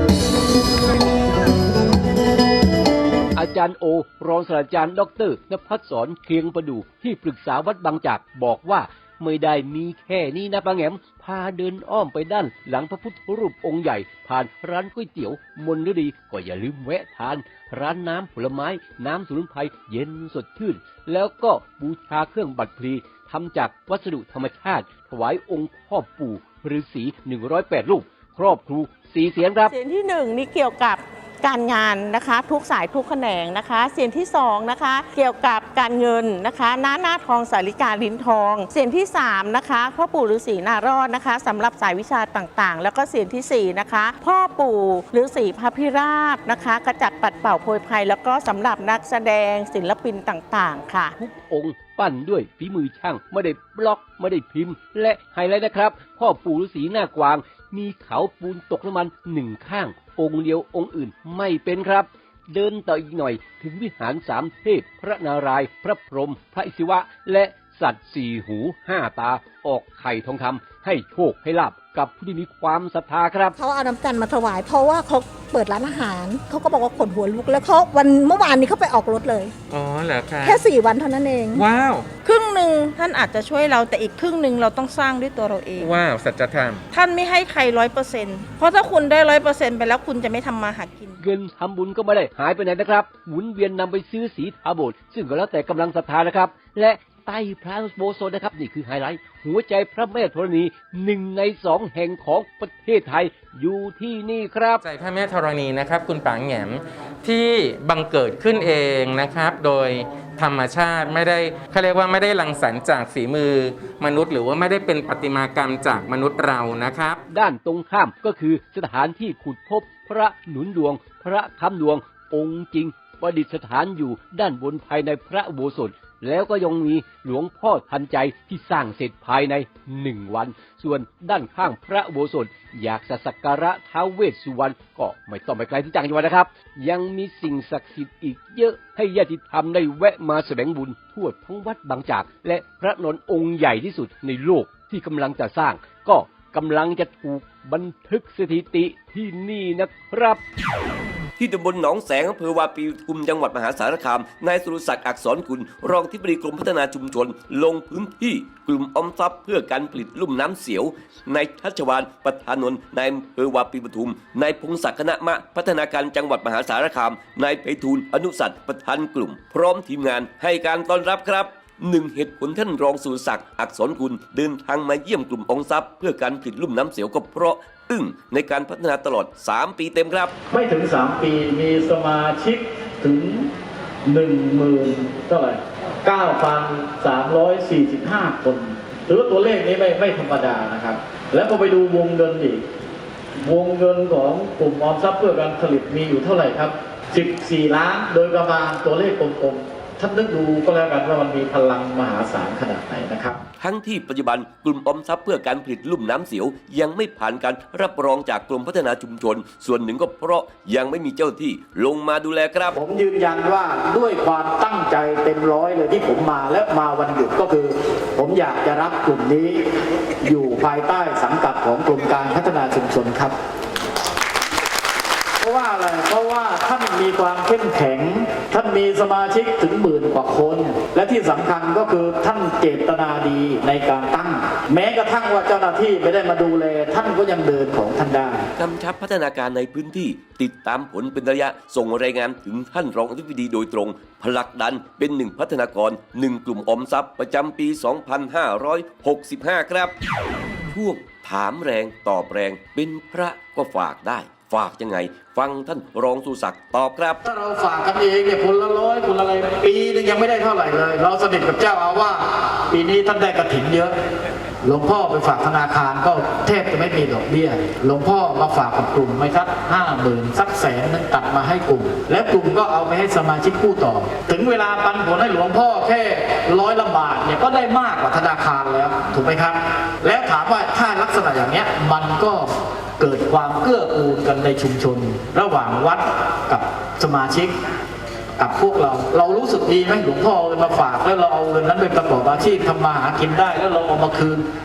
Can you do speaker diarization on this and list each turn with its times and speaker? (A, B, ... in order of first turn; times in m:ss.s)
0:03.3-0:29.7 A
0:29.7-0:51.1 B
0:51.2-1:13.6 A
1:13.6-1:19.5 C
1:19.7-1:20.7 D
1:20.4-1:21.6 C
1:21.5-1:22.1 D
1:22.2-1:25.9 E
1:25.8-1:26.8 D
1:26.9-1:31.2 E
1:31.2-1:44.8 A
1:44.8-1:57.2 D
1:57.3-2:30.4 A
2:31.4-3:00.3 F
3:00.5-3:03.5 G
3:04.0-3:12.6 G
3:13.4-3:23.4 G
3:23.6-3:32.7 F
3:32.7-3:39.6 G
3:40.2-3:43.3 G
3:45.4-3:58.4 G
3:58.6-4:09.9 F
4:10.7-4:17.2 F
4:17.2-4:23.9 G
4:24.6-4:42.5 G
4:43.0-4:47.5 G
4:48.4-4:54.4 G